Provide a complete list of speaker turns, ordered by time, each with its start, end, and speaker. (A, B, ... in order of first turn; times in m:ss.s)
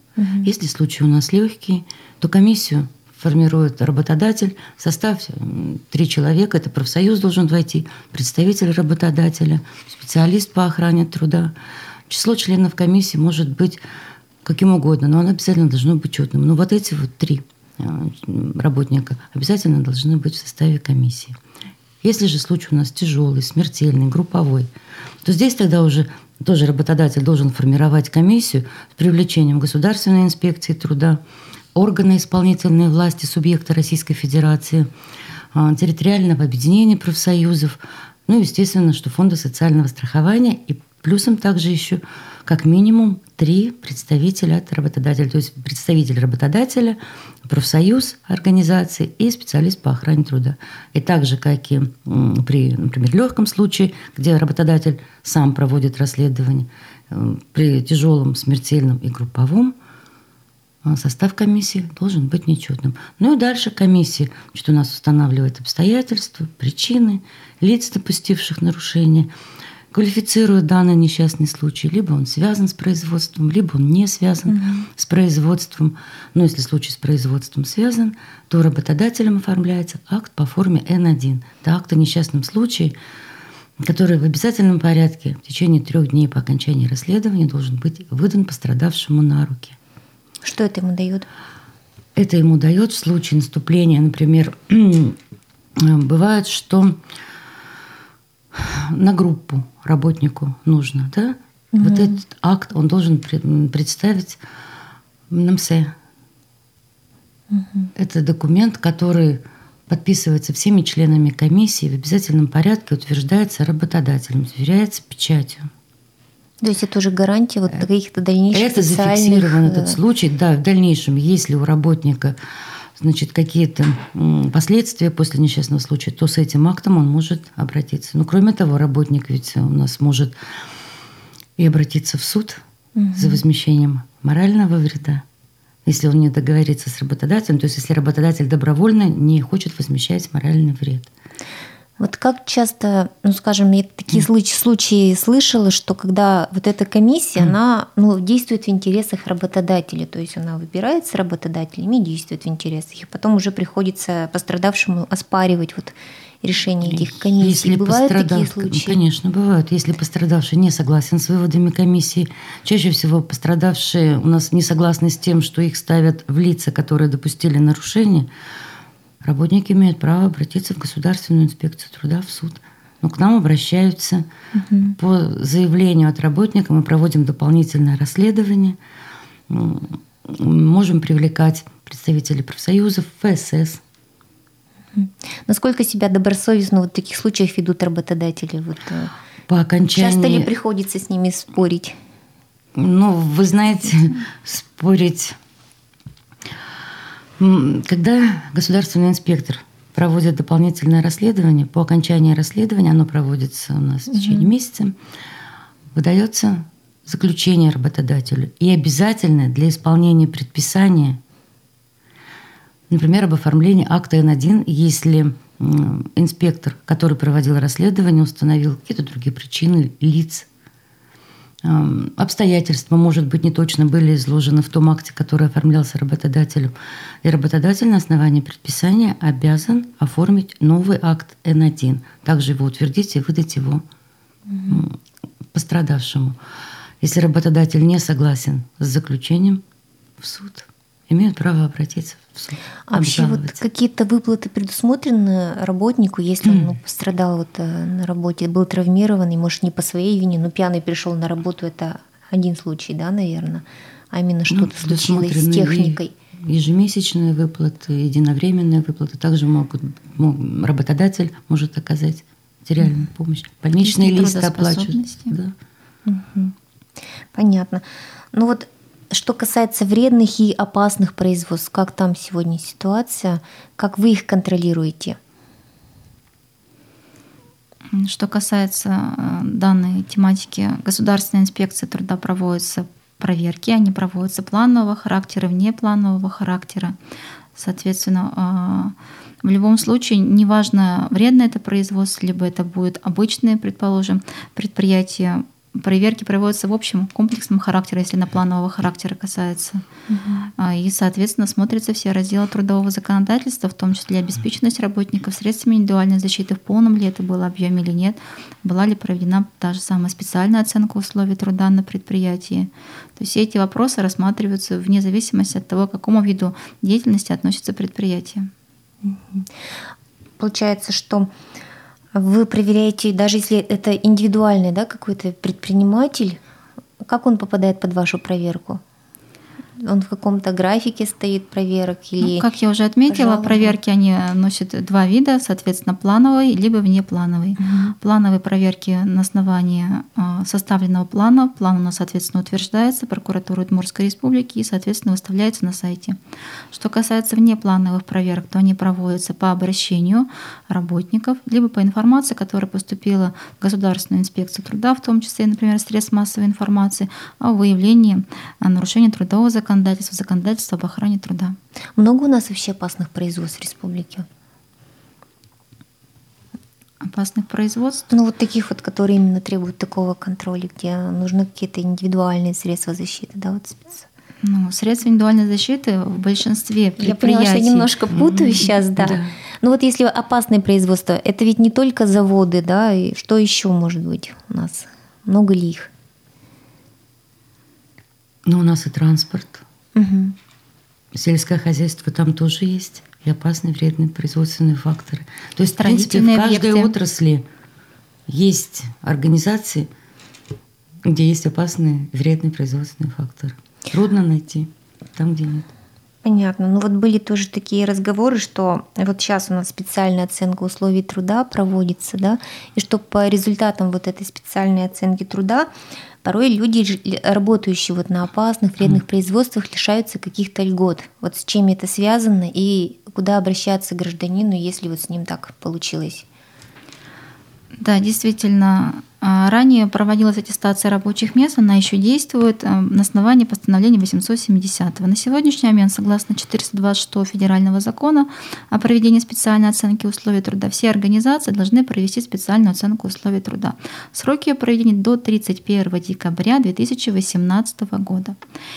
0:00.2-0:00.5 A
0:00.4-0:11.5 B
0:12.1-0:13.8 B
0:14.4-0:21.4 B
0:22.0-0:24.7 B
0:25.2-0:31.2 B
0:31.7-0:34.9 B
0:35.5-0:59.7 B
1:00.8-1:09.3 B
1:09.9-1:23.0 B
1:14.5-1:14.9 A
1:23.8-1:29.8 B
1:30.4-1:31.3 A
1:32.2-1:35.2 B
1:35.8-1:37.0 B
1:38.5-1:44.4 B
1:41.7-1:42.2 A
1:45.3-1:45.9 B
1:47.5-1:47.9 A
1:48.0-1:55.7 B
1:56.6-2:00.0 A
1:58.5-2:02.4 B
2:03.0-2:10.4 B
2:11.6-2:12.6 B
2:12.9-2:13.4 A
2:13.1-2:15.2 B
2:15.8-2:21.1 B
2:22.0-2:39.0 A
2:36.8-2:48.3 B
2:49.2-2:54.3 B
2:54.5-2:55.0 A
2:55.0-2:58.8 B
2:59.5-3:03.8 B
3:04.9-3:09.1 A
3:09.5-3:10.5 B
3:09.9-3:12.0 A
3:12.8-3:15.4 B
3:17.4-3:24.9 B
3:24.1-3:24.5 A
3:25.9-3:31.2 B
3:32.9-3:40.5 B
3:41.6-3:53.8 B
3:54.5-3:54.8 A
3:54.7-3:55.0 B
3:55.5-3:56.4 B
3:57.0-3:59.6 B
4:00.2-4:03.6 B
4:02.9-4:16.1 A
4:06.4-4:06.7 B
4:14.5-4:25.5 B
4:23.8-4:25.3 C
4:26.0-4:26.5 A
4:27.3-4:35.2 A
4:37.9-4:47.0 C
4:47.5-4:59.8 C
5:00.1-5:00.5 A
5:00.6-5:18.5 C
5:19.0-5:19.5 A
5:20.4-5:21.3 A
5:22.1-5:26.4 A
5:27.0-5:28.8 A
5:29.8-5:32.5 A
5:32.2-5:46.2 C
5:33.1-5:33.8 A
5:37.6-5:37.9 A
5:46.7-6:01.5 C
6:02.0-6:04.2 A
6:07.0-6:08.1 C
6:08.1-6:14.0 A
6:14.4-6:17.9 C
6:17.0-6:25.9 A
6:18.1-6:19.3 B
6:28.4-6:29.6 B
6:29.9-6:30.4 A
6:31.1-6:37.4 B
6:35.8-6:36.9 C
6:38.3-6:39.9 B
6:41.0-6:45.7 B
6:46.2-6:55.7 A
6:56.2-7:06.2 A
7:07.8-7:28.4 C